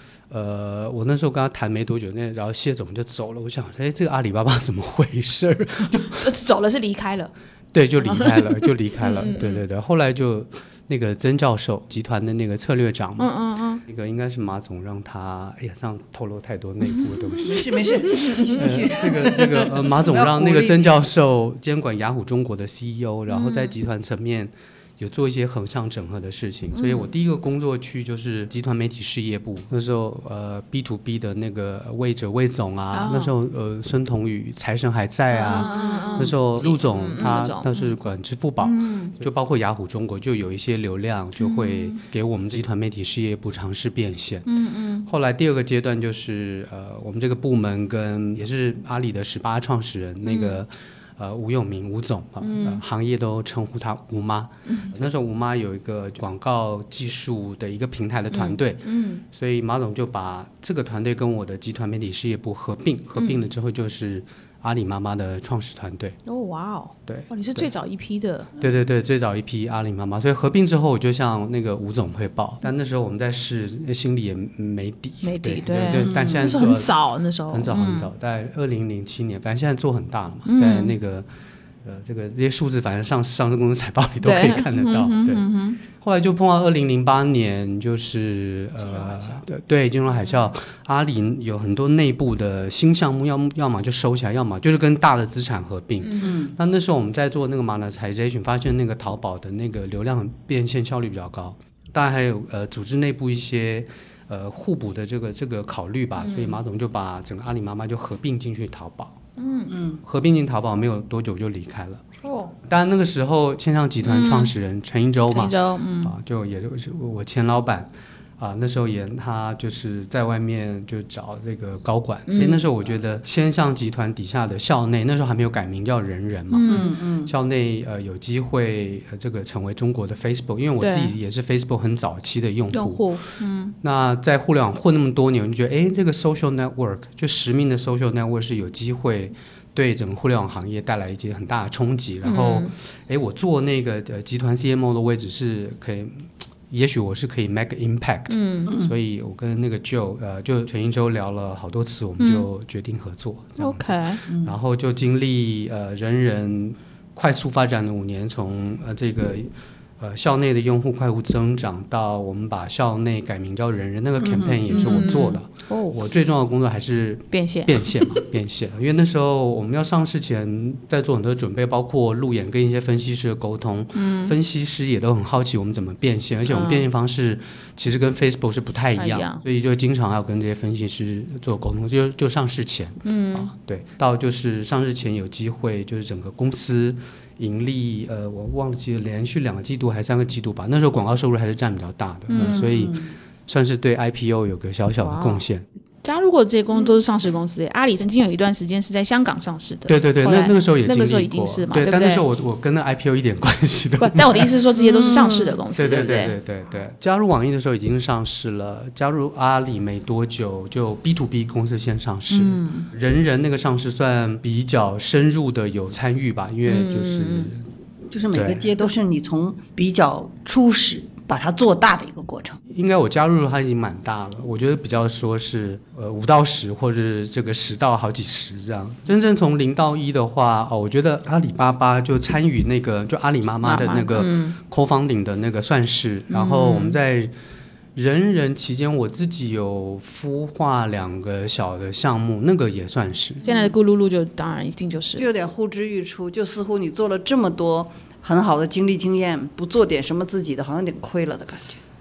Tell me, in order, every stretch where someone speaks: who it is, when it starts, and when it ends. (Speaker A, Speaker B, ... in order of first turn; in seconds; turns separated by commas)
Speaker A: 0.3-6.2, Speaker B: 6.0-7.3, Speaker A: 7.7-13.3, Speaker B: 8.0-9.6, Speaker B: 13.2-13.8, Speaker A: 13.8-17.7, Speaker B: 17.0-18.6, Speaker C: 17.4-21.0, Speaker A: 18.5-44.5, Speaker B: 23.3-23.7, Speaker B: 26.7-27.1, Speaker B: 32.9-33.3, Speaker B: 35.3-37.9, Speaker C: 35.6-36.3, Speaker B: 38.6-39.2, Speaker B: 41.4-42.0, Speaker B: 44.5-45.1, Speaker A: 45.0-58.8, Speaker B: 50.2-50.6, Speaker B: 52.4-52.8, Speaker B: 54.6-55.0, Speaker B: 58.3-59.2, Speaker A: 59.3-66.2, Speaker B: 63.1-63.4, Speaker B: 66.2-68.5, Speaker A: 67.1-67.7, Speaker A: 68.6-76.9, Speaker B: 75.2-78.1, Speaker C: 76.0-76.5, Speaker A: 77.5-81.3, Speaker B: 80.4-80.9, Speaker A: 81.8-109.2, Speaker B: 84.2-85.8, Speaker B: 96.0-96.4, Speaker C: 96.2-96.5, Speaker B: 106.2-106.6, Speaker B: 109.4-109.8, Speaker C: 109.7-110.0, Speaker A: 110.0-112.0, Speaker B: 112.2-112.5, Speaker A: 112.6-133.2, Speaker B: 114.0-114.5, Speaker B: 115.3-116.1, Speaker B: 122.3-122.6, Speaker B: 126.5-126.9, Speaker C: 126.7-127.3, Speaker B: 130.8-131.1, Speaker B: 132.7-133.7, Speaker A: 133.8-195.6, Speaker B: 142.2-142.7, Speaker B: 148.3-148.8, Speaker B: 152.2-152.5, Speaker B: 153.6-154.2, Speaker C: 154.3-154.5, Speaker C: 164.2-165.3, Speaker B: 164.7-166.0, Speaker B: 167.3-168.2, Speaker B: 173.9-174.3, Speaker B: 176.5-176.8, Speaker B: 178.9-179.4, Speaker B: 183.0-183.5, Speaker B: 192.3-192.9, Speaker C: 192.3-193.1, Speaker B: 195.0-195.4, Speaker B: 196.0-202.2, Speaker A: 199.9-204.5, Speaker B: 204.0-206.4, Speaker C: 204.8-205.6, Speaker A: 205.7-217.6, Speaker B: 212.3-212.8, Speaker B: 216.7-217.5, Speaker C: 218.1-222.6, Speaker A: 218.3-218.7, Speaker A: 222.7-237.3, Speaker B: 233.6-234.6, Speaker B: 236.3-237.0, Speaker A: 237.9-243.4, Speaker C: 243.4-243.7, Speaker B: 243.4-245.3, Speaker C: 245.2-251.8